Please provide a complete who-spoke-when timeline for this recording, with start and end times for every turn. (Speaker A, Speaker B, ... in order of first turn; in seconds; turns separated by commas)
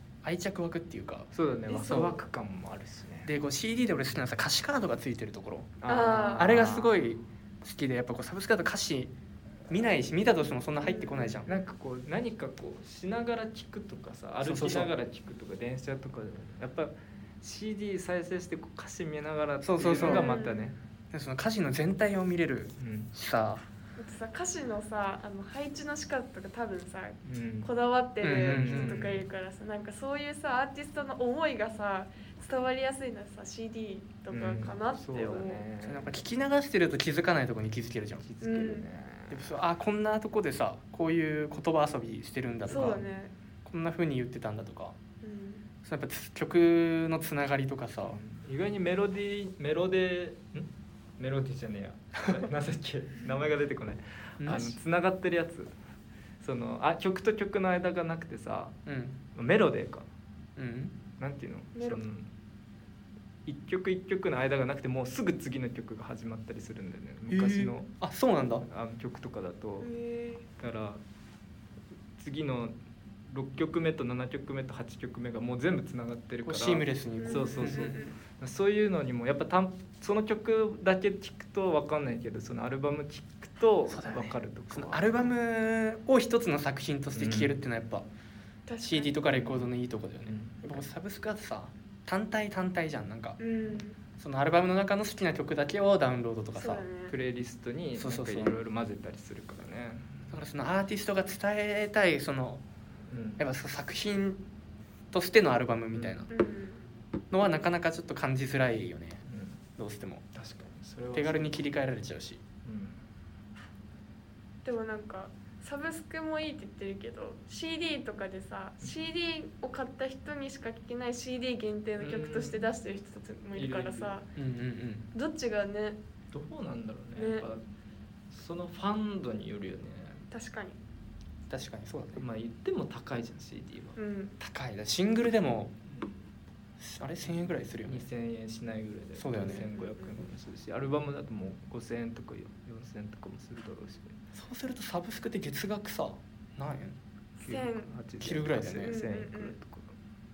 Speaker A: 0.2-1.3, Speaker B: 1.3-3.3, Speaker C: 1.7-2.1, Speaker A: 1.9-2.2, Speaker A: 3.2-5.8, Speaker B: 5.8-7.0, Speaker C: 5.9-6.5, Speaker A: 6.4-9.1, Speaker A: 9.7-11.5, Speaker C: 10.8-11.5, Speaker B: 11.5-20.8, Speaker A: 14.4-14.9, Speaker A: 19.6-20.3, Speaker C: 20.0-20.7, Speaker A: 21.1-23.6, Speaker B: 22.8-23.1, Speaker C: 24.0-35.6, Speaker B: 27.2-27.7, Speaker A: 28.2-29.1, Speaker B: 28.4-29.3, Speaker B: 34.3-36.1, Speaker A: 35.8-38.3, Speaker B: 38.2-39.5, Speaker C: 38.4-38.9, Speaker A: 39.3-43.0, Speaker C: 42.7-43.3, Speaker B: 42.7-43.1, Speaker A: 43.6-45.0, Speaker C: 45.2-45.6, Speaker A: 45.8-48.2, Speaker B: 48.0-55.7, Speaker A: 54.4-54.8, Speaker B: 56.4-58.8, Speaker A: 58.9-59.2, Speaker B: 59.4-60.1, Speaker A: 60.6-61.0, Speaker B: 61.2-62.3, Speaker C: 61.8-62.0, Speaker B: 63.5-67.9, Speaker A: 67.3-68.7, Speaker B: 68.6-69.9, Speaker C: 69.8-70.5, Speaker B: 70.6-71.0, Speaker B: 72.2-72.8, Speaker B: 73.3-85.3, Speaker A: 76.5-78.0, Speaker C: 77.2-78.2, Speaker A: 83.9-88.1, Speaker B: 87.1-87.6, Speaker C: 88.7-89.2, Speaker A: 88.8-93.4, Speaker B: 89.3-89.7, Speaker B: 90.2-90.8, Speaker C: 93.4-94.0, Speaker A: 94.2-96.9, Speaker C: 96.6-97.1, Speaker B: 97.1-100.2, Speaker A: 98.0-98.6, Speaker A: 100.3-102.6, Speaker B: 103.1-103.4, Speaker A: 103.4-104.4, Speaker A: 105.1-106.3, Speaker B: 105.9-106.3, Speaker C: 106.3-106.8, Speaker A: 107.3-109.2, Speaker B: 109.3-109.6, Speaker A: 109.8-110.2, Speaker B: 110.3-111.6, Speaker A: 111.1-112.4, Speaker B: 112.7-113.0, Speaker C: 114.6-124.3, Speaker B: 122.0-122.7, Speaker B: 123.5-124.2, Speaker A: 124.4-125.1, Speaker C: 125.1-126.0, Speaker B: 126.3-127.7, Speaker C: 127.2-127.5, Speaker B: 128.3-130.2, Speaker C: 130.3-130.8, Speaker A: 131.5-132.2, Speaker B: 132.2-134.0, Speaker C: 134.0-134.4, Speaker A: 134.4-135.8, Speaker A: 136.8-138.1, Speaker B: 137.8-144.2, Speaker A: 139.2-139.7, Speaker C: 139.7-140.2, Speaker A: 144.3-147.0, Speaker C: 147.4-147.9, Speaker B: 147.4-149.9, Speaker A: 148.2-148.9, Speaker C: 148.8-149.6